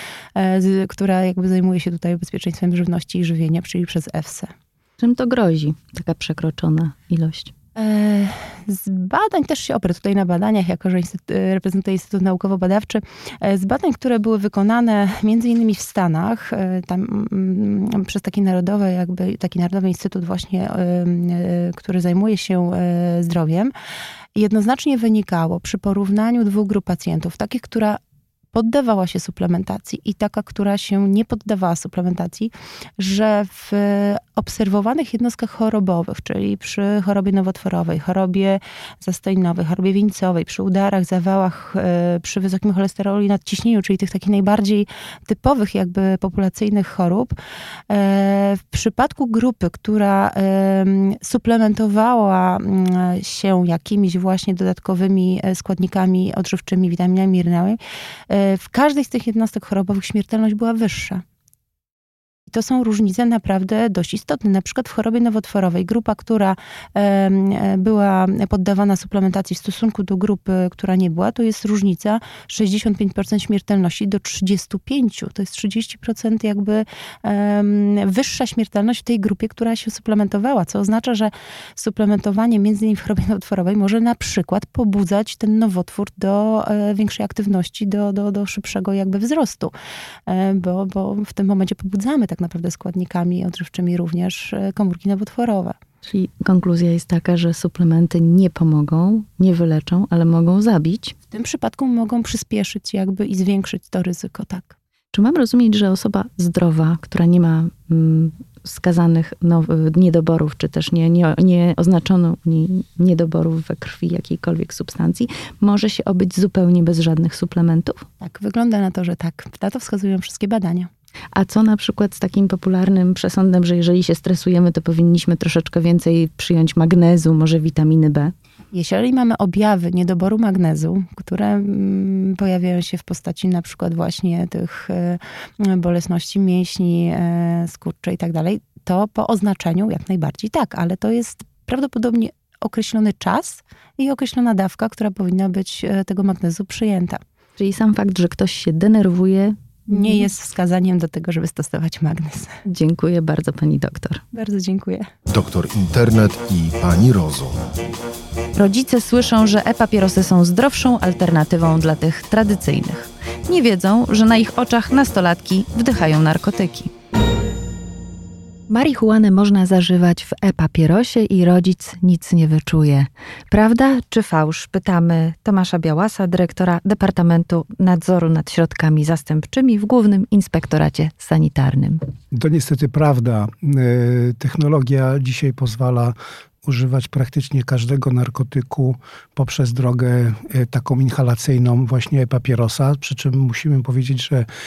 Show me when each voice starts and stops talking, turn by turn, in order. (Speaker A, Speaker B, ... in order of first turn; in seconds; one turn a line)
Speaker A: 0.3-4.5
Speaker B: 5.0-7.5
Speaker A: 7.8-23.7
Speaker A: 24.3-28.0
Speaker A: 28.5-47.4
Speaker A: 47.9-61.2
Speaker A: 62.5-89.7
Speaker A: 90.3-95.8
Speaker B: 96.0-101.1
Speaker A: 101.3-104.7
Speaker B: 105.1-118.0
Speaker A: 118.2-120.9
Speaker B: 121.3-128.3
Speaker A: 128.7-147.2
Speaker B: 147.6-150.2
Speaker A: 149.9-152.5
Speaker B: 152.6-154.2
Speaker A: 154.3-155.1
Speaker C: 155.3-157.7
Speaker B: 158.6-166.9
Speaker B: 168.7-182.0
Speaker D: 182.3-194.5